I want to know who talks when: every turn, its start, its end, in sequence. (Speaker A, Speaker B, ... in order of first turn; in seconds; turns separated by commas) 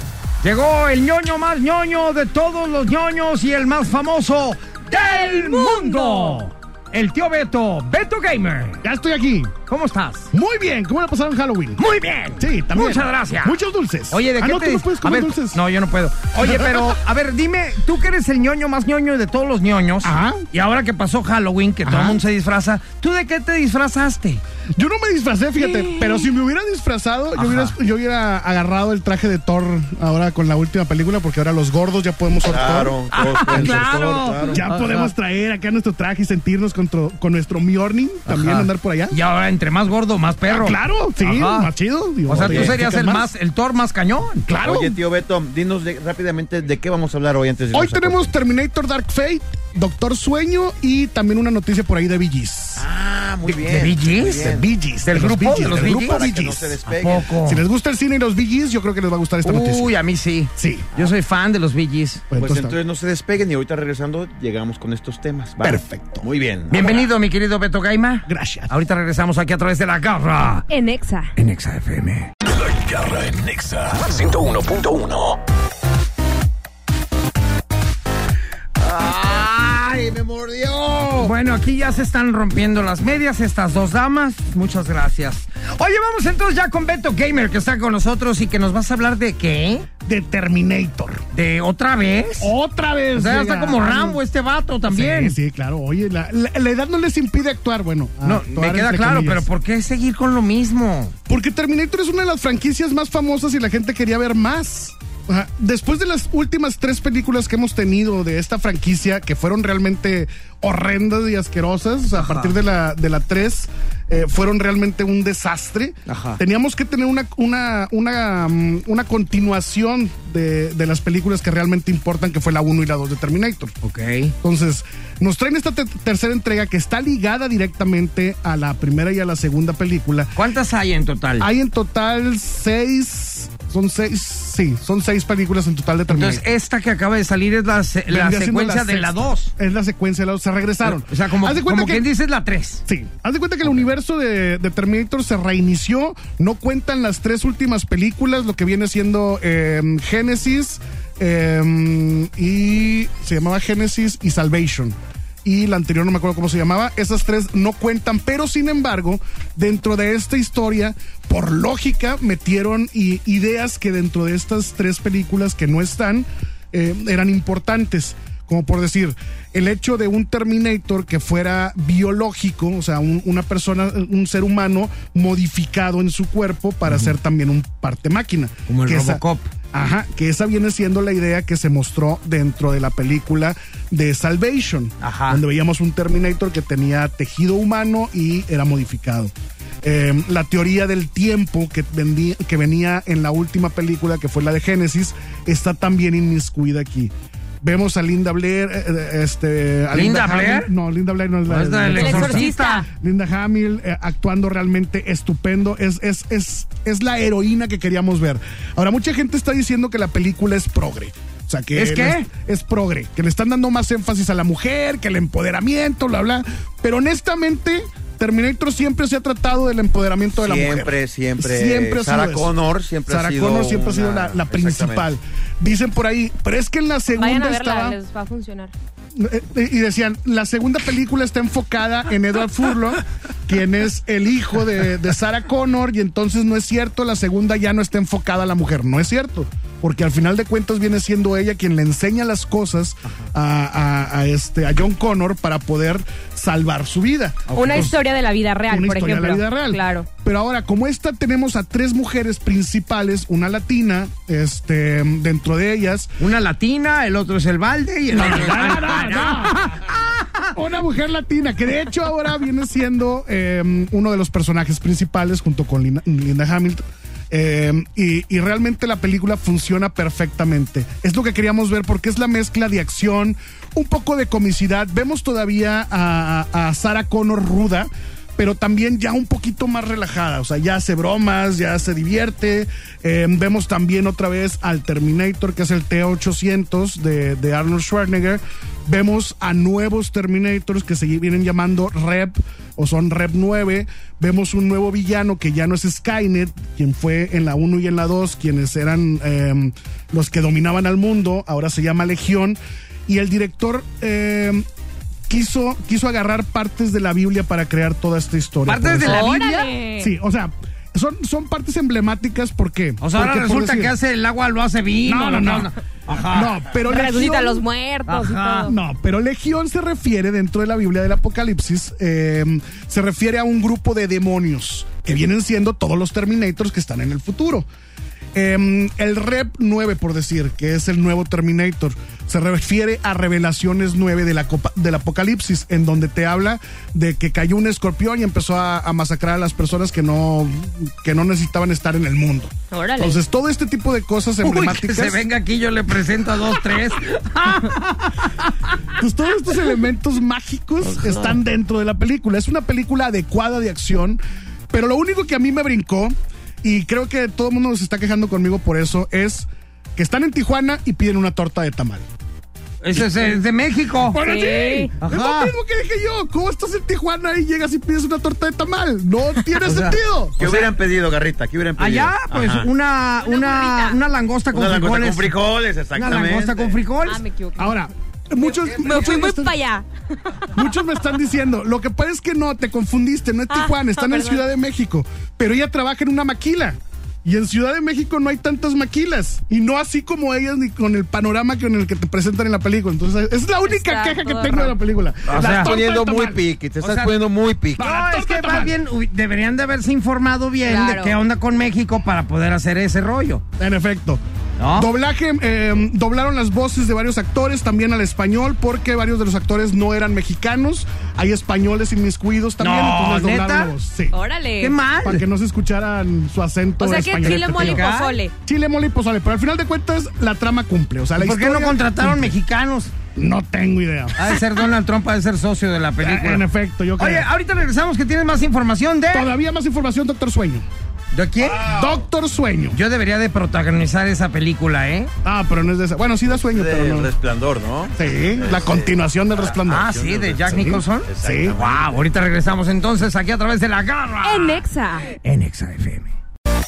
Speaker A: 0.4-8.8, Speaker B: 5.0-6.4, Speaker C: 8.8-9.5, Speaker A: 9.7-10.3, Speaker C: 10.3-11.8, Speaker A: 11.8-13.6, Speaker C: 12.4-15.6, Speaker A: 14.1-24.4, Speaker C: 16.4-17.0, Speaker C: 20.0-20.5, Speaker C: 21.9-22.2, Speaker C: 24.8-33.0, Speaker B: 25.6-26.3, Speaker A: 27.4-27.8, Speaker D: 32.4-34.7, Speaker A: 33.1-35.1, Speaker C: 34.5-39.1, Speaker A: 38.3-41.7, Speaker C: 40.5-43.3, Speaker A: 42.3-44.5, Speaker D: 42.4-42.8, Speaker C: 44.5-45.0, Speaker D: 44.6-48.3, Speaker C: 47.7-52.9, Speaker D: 52.8-54.7, Speaker A: 53.5-54.5, Speaker C: 54.4-56.8, Speaker A: 55.0-56.2, Speaker D: 55.6-57.3, Speaker A: 56.9-57.6, Speaker C: 57.3-59.9, Speaker A: 59.4-62.2, Speaker C: 60.6-60.9, Speaker C: 62.3-62.8, Speaker D: 62.4-67.1, Speaker C: 65.6-66.3, Speaker A: 66.7-70.7, Speaker C: 68.3-68.7, Speaker B: 70.7-71.3, Speaker A: 71.4-72.3, Speaker E: 72.5-75.4, Speaker D: 78.8-81.3, Speaker A: 81.2-89.9, Speaker C: 90.0-91.2, Speaker A: 91.3-92.5, Speaker C: 92.4-94.2, Speaker A: 93.1-95.4, Speaker C: 94.8-99.5, Speaker A: 98.2-101.1, Speaker C: 101.3-123.7, Speaker A: 112.2-112.6, Speaker A: 116.1-116.4, Speaker A: 123.8-124.3, Speaker C: 124.4-130.3, Speaker A: 130.4-131.5, Speaker C: 131.4-136.4, Speaker A: 136.1-139.5, Speaker C: 138.1-142.1, Speaker A: 140.8-142.8, Speaker C: 142.9-222.5, Speaker A: 176.9-177.2, Speaker A: 178.7-179.5, Speaker A: 185.0-185.4, Speaker A: 199.9-200.7, Speaker A: 201.5-202.8, Speaker B: 201.9-202.9, Speaker A: 211.7-212.3, Speaker D: 220.4-225.1, Speaker C: 223.1-228.0, Speaker B: 227.2-228.7, Speaker C: 229.2-247.9, Speaker A: 247.5-247.9, Speaker B: 247.6-250.1, Speaker C: 248.7-256.1, Speaker A: 256.2-260.5, Speaker C: 258.1-259.7, Speaker C: 260.5-304.7, Speaker C: 305.3-309.3, Speaker A: 308.7-309.7, Speaker B: 309.0-310.1, Speaker C: 310.0-313.9, Speaker A: 313.0-316.6, Speaker C: 315.1-317.6, Speaker B: 316.8-318.7, Speaker A: 318.1-318.7, Speaker C: 318.7-327.7, Speaker C: 328.4-345.2, Speaker B: 342.7-343.2, Speaker A: 344.4-348.5, Speaker C: 348.9-362.1, Speaker A: 362.8-364.3, Speaker C: 364.1-370.4, Speaker B: 364.1-364.9, Speaker A: 365.0-365.5, Speaker A: 369.6-370.7, Speaker D: 370.4-372.7, Speaker A: 371.8-375.4, Speaker B: 373.2-374.0, Speaker D: 374.5-376.8, Speaker A: 375.9-377.2, Speaker B: 377.1-377.9, Speaker C: 377.6-379.6, Speaker B: 378.7-379.9, Speaker B: 380.4-380.7, Speaker C: 380.5-396.4, Speaker B: 383.5-384.4, Speaker B: 393.6-394.8, Speaker A: 395.3-395.7, Speaker D: 395.3-397.8, Speaker A: 396.8-397.1, Speaker A: 397.8-403.4, Speaker C: 397.8-398.8, Speaker B: 400.7-401.2, Speaker C: 403.6-404.2, Speaker A: 404.6-404.9, Speaker C: 404.8-414.1, Speaker A: 412.6-413.7, Speaker B: 414.1-414.7, Speaker A: 414.6-415.3, Speaker C: 415.0-417.9, Speaker B: 416.8-418.3, Speaker A: 417.2-418.2, Speaker C: 418.4-422.3, Speaker A: 421.2-422.9, Speaker C: 423.1-424.5, Speaker A: 424.2-426.4, Speaker C: 426.0-427.3, Speaker A: 427.0-429.3, Speaker C: 429.1-430.6, Speaker A: 431.1-431.7, Speaker D: 431.4-432.0, Speaker C: 431.6-432.8, Speaker A: 432.7-435.1, Speaker C: 435.2-437.1, Speaker D: 436.3-442.0, Speaker C: 437.9-439.9, Speaker A: 439.6-444.6, Speaker C: 441.2-441.6, Speaker B: 444.2-445.1, Speaker A: 445.1-446.1